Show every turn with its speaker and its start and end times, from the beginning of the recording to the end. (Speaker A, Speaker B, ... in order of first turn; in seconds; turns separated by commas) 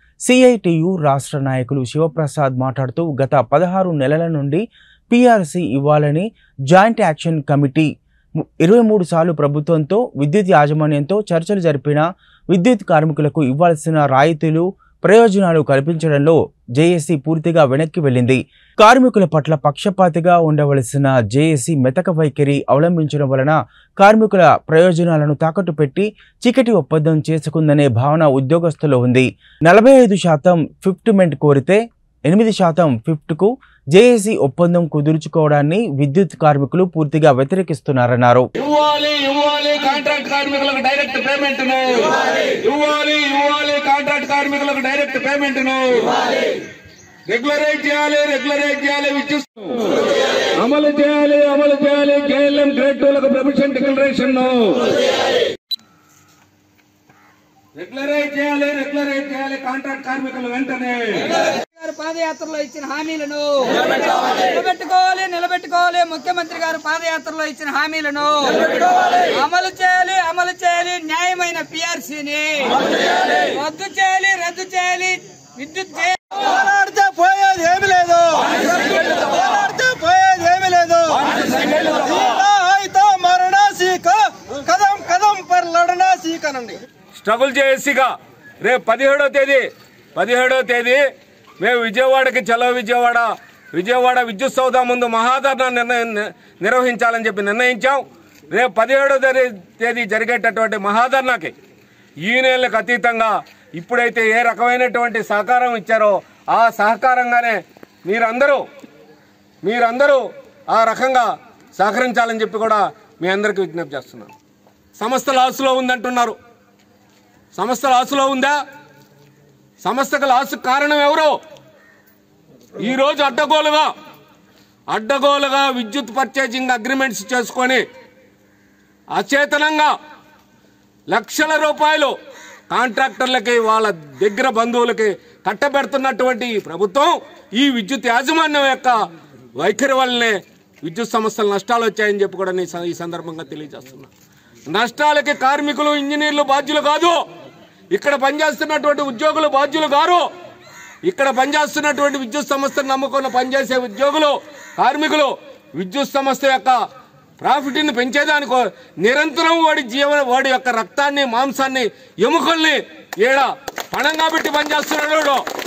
Speaker A: 0.2-38.5, Speaker B: 38.5-46.5, Speaker B: 47.3-55.0, Speaker B: 57.8-61.4, Speaker C: 61.5-76.4, Speaker D: 76.4-81.2, Speaker B: 81.1-82.3, Speaker D: 82.1-86.8, Speaker B: 87.2-91.0, Speaker B: 91.6-101.5, Speaker B: 102.2-108.6, Speaker B: 109.6-114.3, Speaker B: 115.0-116.4, Speaker B: 117.5-118.6, Speaker B: 119.8-121.3, Speaker B: 122.8-123.9, Speaker B: 124.9-127.8, Speaker B: 129.1-129.9, Speaker B: 131.1-132.1, Speaker B: 132.7-139.0, Speaker B: 139.6-144.1, Speaker B: 144.7-147.2, Speaker B: 147.9-150.2, Speaker B: 151.0-156.8, Speaker B: 157.4-165.4